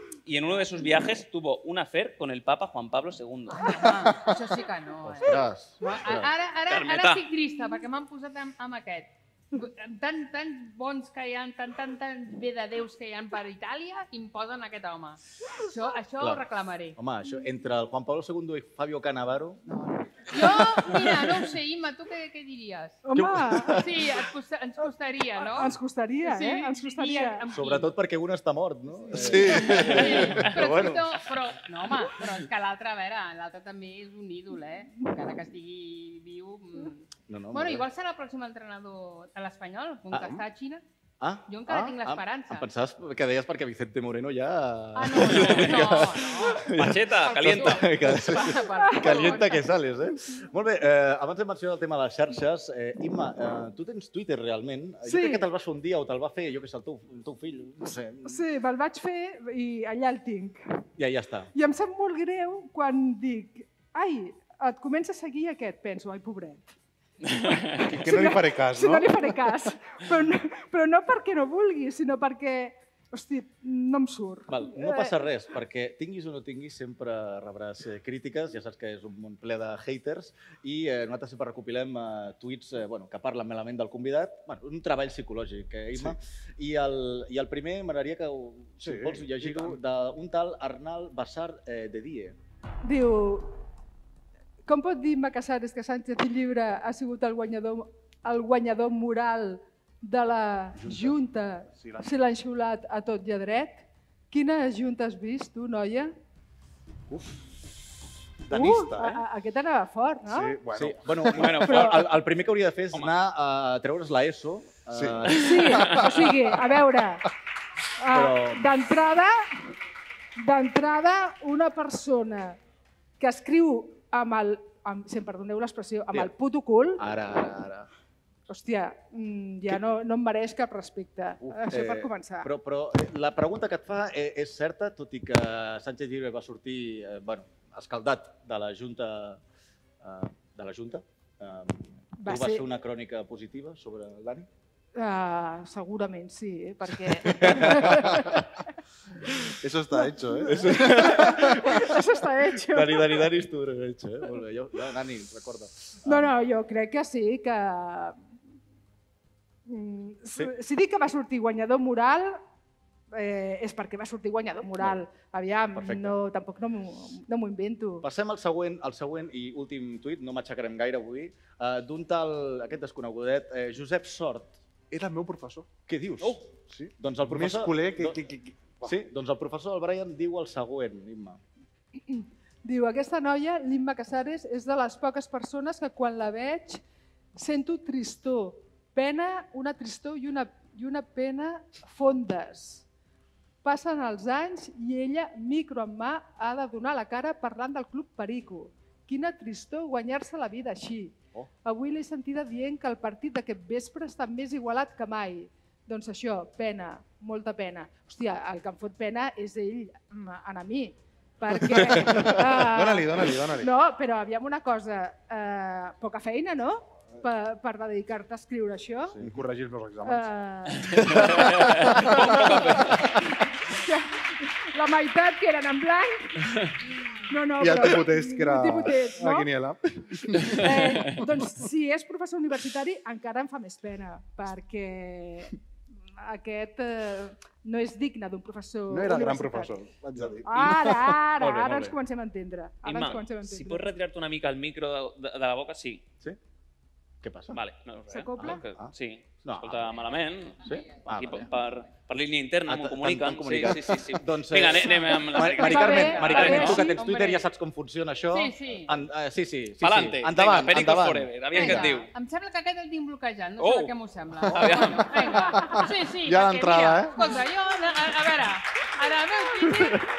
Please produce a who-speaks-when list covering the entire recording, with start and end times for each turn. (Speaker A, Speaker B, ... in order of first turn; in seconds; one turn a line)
Speaker A: 0.2-3.6
Speaker B: 3.6-17.0
Speaker C: 5.0-6.3
Speaker A: 6.7-7.2
Speaker C: 16.9-19.6
Speaker B: 19.6-23.0
Speaker C: 20.4-21.1
Speaker D: 23.0-23.8
Speaker C: 23.1-24.2
Speaker B: 23.7-27.9
Speaker D: 25.4-27.4
Speaker C: 27.5-31.2
Speaker B: 29.1-40.8
Speaker E: 29.1-30.4
Speaker C: 37.3-37.8
Speaker C: 40.1-40.4
Speaker C: 41.2-58.4
Speaker B: 41.5-42.7
Speaker B: 44.9-46.7
Speaker A: 45.2-45.9
Speaker A: 46.7-47.9
Speaker B: 47.2-49.6
Speaker D: 48.8-49.5
Speaker D: 55.0-55.5
Speaker D: 58.2-60.6
Speaker C: 61.0-61.5
Speaker D: 61.5-66.7
Speaker A: 67.3-67.8
Speaker E: 67.7-69.4
Speaker D: 68.0-75.2
Speaker C: 74.5-92.3
Speaker E: 88.8-89.8
Speaker D: 92.8-93.6
Speaker D: 94.6-106.1
Speaker E: 100.8-101.1
Speaker E: 101.7-102.1
Speaker E: 107.1-107.4
Speaker E: 108.5-109.2
Speaker D: 108.5-110.6
Speaker E: 110.3-111.6
Speaker C: 110.7-116.0
Speaker A: 111.2-112.1
Speaker D: 111.7-112.1
Speaker E: 114.9-116.1
Speaker D: 115.3-117.2
Speaker D: 118.0-119.7
Speaker C: 118.1-118.7
Speaker D: 120.4-122.6
Speaker D: 123.2-127.0
Speaker C: 127.0-127.9
Speaker D: 128.5-132.5
Speaker C: 131.4-139.4
Speaker C: 140.0-144.5
Speaker D: 142.2-142.7
Speaker D: 144.9-148.4
Speaker C: 147.2-148.4
Speaker E: 147.9-148.1
Speaker E: 149.5-151.8
Speaker D: 149.9-153.3
Speaker C: 150.5-152.0
Speaker C: 152.7-156.3
Speaker D: 156.0-158.2
Speaker D: 159.7-162.4
Speaker D: 163.1-168.0
Speaker C: 165.7-166.2
Speaker C: 168.0-174.6
Speaker E: 174.9-175.7
Speaker C: 175.9-176.4
Speaker E: 176.7-178.9
Speaker C: 177.0-178.2
Speaker C: 178.8-181.4
Speaker D: 182.1-186.8
Speaker D: 187.3-192.8
Speaker D: 193.6-219.2
Speaker C: 211.8-212.4
Speaker E: 212.0-213.7
Speaker E: 219.1-220.3
Speaker D: 220.0-221.0
Speaker C: 221.1-221.5
Speaker E: 221.1-222.7
Speaker A: 221.3-223.0
Speaker D: 223.7-226.7
Speaker D: 227.3-229.5
Speaker E: 227.6-231.2
Speaker D: 230.5-235.5
Speaker D: 236.1-239.8
Speaker E: 238.9-240.7
Speaker C: 240.2-241.9
Speaker D: 240.4-243.9
Speaker A: 242.8-246.0
Speaker C: 247.2-247.6
Speaker A: 247.5-256.9
Speaker D: 248.1-248.6
Speaker C: 248.4-248.9
Speaker C: 249.4-249.8
Speaker C: 250.6-251.5
Speaker C: 252.7-261.9
Speaker D: 255.5-257.0
Speaker B: 255.7-257.4
Speaker B: 258.3-258.9
Speaker A: 259.8-262.1
Speaker B: 261.5-270.0
Speaker A: 263.6-263.9
Speaker A: 264.4-265.3
Speaker E: 265.7-267.2